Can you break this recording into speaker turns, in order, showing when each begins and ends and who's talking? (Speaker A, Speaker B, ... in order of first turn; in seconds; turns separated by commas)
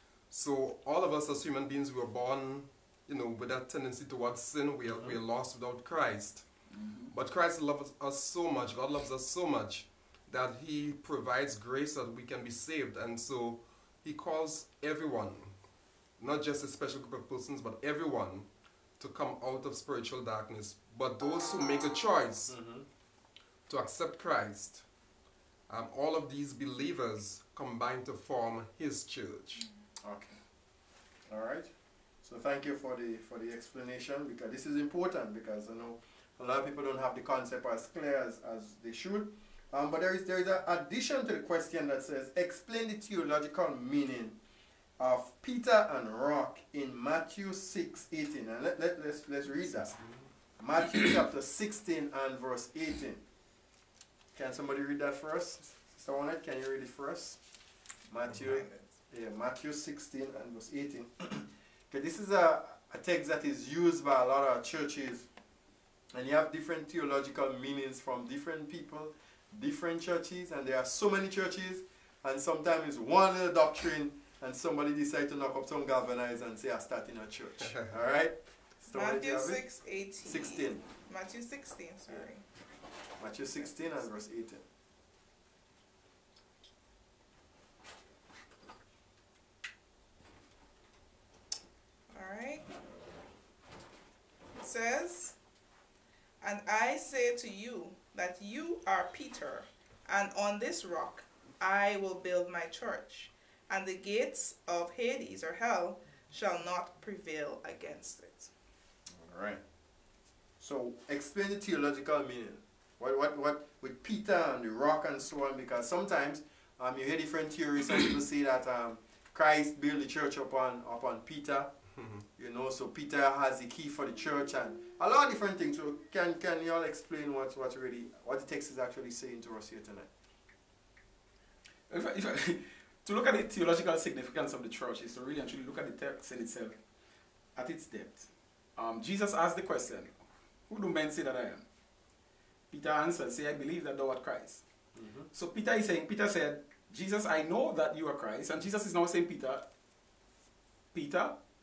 Speaker A: 0.3-6.5, Speaker B: 6.7-7.1, Speaker A: 7.1-15.5, Speaker A: 16.2-18.5, Speaker A: 19.0-22.6, Speaker C: 22.5-22.9, Speaker A: 23.7-24.8, Speaker A: 25.7-29.7, Speaker C: 30.0-30.4, Speaker C: 31.3-31.7, Speaker C: 32.2-44.4, Speaker C: 45.0-50.0, Speaker A: 49.8-50.2, Speaker C: 50.6-53.2, Speaker C: 54.3-57.4, Speaker C: 58.1-65.3, Speaker C: 66.1-79.6, Speaker D: 78.9-82.4, Speaker C: 80.2-80.8, Speaker C: 83.2-84.6, Speaker D: 92.1-92.7, Speaker D: 94.5-95.3, Speaker D: 96.4-108.5, Speaker C: 109.1-109.6, Speaker C: 110.6-121.7, Speaker A: 122.0-122.2, Speaker C: 122.3-130.1, Speaker B: 131.9-136.8, Speaker B: 137.6-141.6, Speaker B: 142.7-144.6, Speaker C: 144.9-145.3, Speaker B: 145.3-149.6, Speaker B: 150.9-151.4